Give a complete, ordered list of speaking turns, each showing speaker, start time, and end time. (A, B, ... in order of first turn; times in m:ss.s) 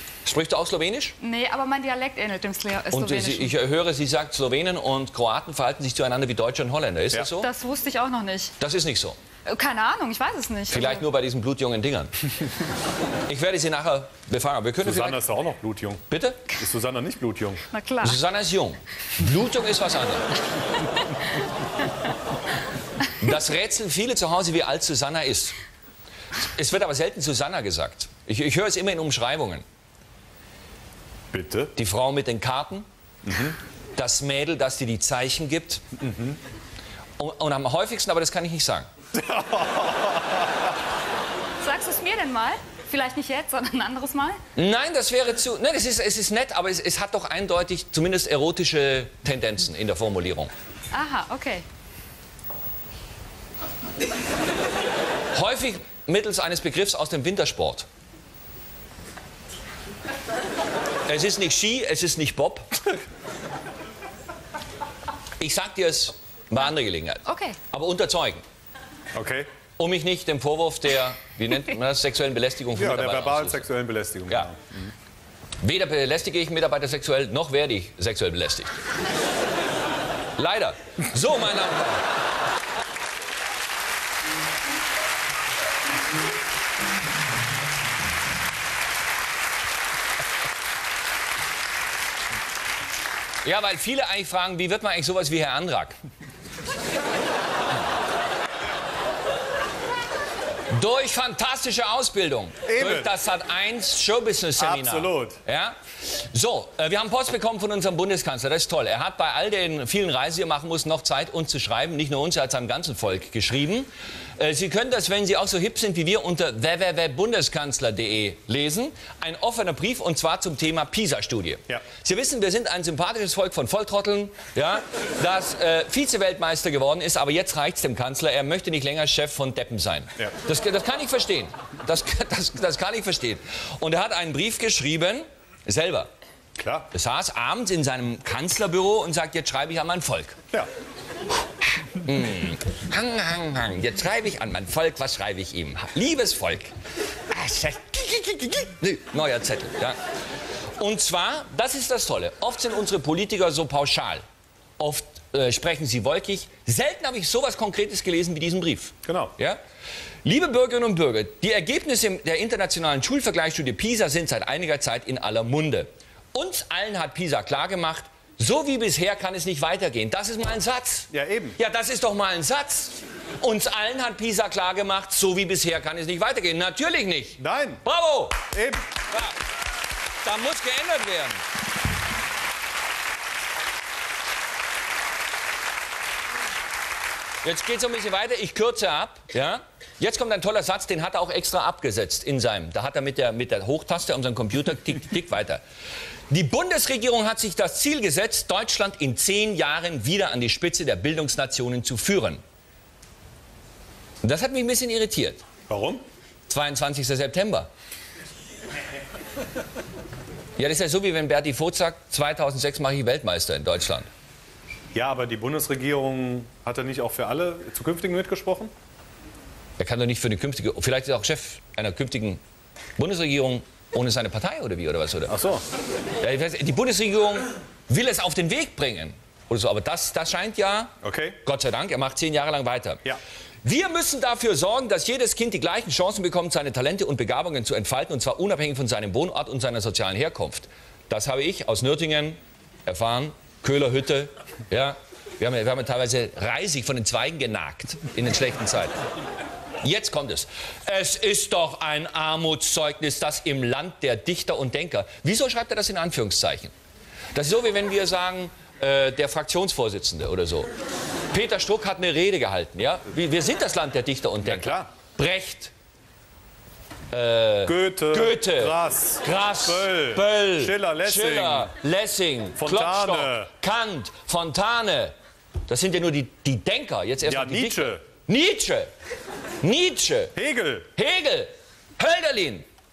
0:00.2-0:01.2 A
0:01.2-0:03.5 B
0:02.9-0:07.5 A
0:07.4-0:08.5 B
0:08.6-0:09.2 A
0:09.4-0:11.1 B
0:10.7-0:12.1 A
0:13.3-0:15.2 A
0:14.8-0:16.0 C
0:16.1-0:16.4 A
0:16.6-0:17.6 C
0:17.7-0:18.2 B
0:18.0-0:20.3 A
0:23.2-0:25.6 A
0:26.6-0:29.6 A
0:31.3-0:31.7 C
0:31.8-0:32.9 A
0:33.2-0:33.6 C
0:34.0-0:35.8 A
0:36.0-0:36.4 C
0:37.2-0:38.9 A
0:39.1-0:40.7 C
0:41.6-0:44.4 B
0:44.6-0:50.5 A
0:50.9-0:51.6 B
0:55.3-0:57.9 A
1:01.1-1:02.7 A
1:05.4-1:08.4 A
1:07.3-1:07.6 B
1:09.1-1:09.5 C
1:09.8-1:13.7 A
1:12.7-1:14.9 C
1:15.6-1:18.7 A
1:20.4-1:22.1 A
1:33.4-1:36.0 A
1:40.7-2:16.1 A
1:42.6-1:43.1 C
1:44.6-1:45.4 C
2:16.6-2:16.9 C
2:16.9-2:20.4 A
2:21.9-2:26.7 A
2:27.3-2:30.0 A
2:30.8-2:34.2 A
2:34.8-2:39.6 A
2:39.0-2:39.3 C
2:40.2-2:58.5 A
2:51.1-2:51.6 C
2:57.4-2:57.8 C
2:58.5-2:58.8 C
2:59.1-2:59.4 A
3:00.2-3:01.4 A
3:07.4-3:15.6 A
3:16.3-3:22.4 A
3:24.2-3:25.4 A
3:25.7-3:26.0 C
3:26.5-3:27.7 A
3:30.6-3:34.1 A
3:34.9-3:38.7 C
3:39.8-3:42.4 A
3:43.0-3:45.3 A
3:45.3-3:45.6 C
3:46.2-3:53.0 A
3:51.0-3:51.4 C
3:53.6-4:09.0 A
4:09.8-4:16.7 A
4:17.4-4:20.7 A
4:21.3-4:25.7 A
4:24.4-4:24.9 C
4:27.1-4:35.1 A
4:27.6-4:31.7 C
4:32.6-4:33.5 C
4:35.7-4:38.9 A
4:37.2-4:38.0 C
4:39.6-4:40.3 A
4:40.4-4:40.9 C
4:41.0-4:42.7 A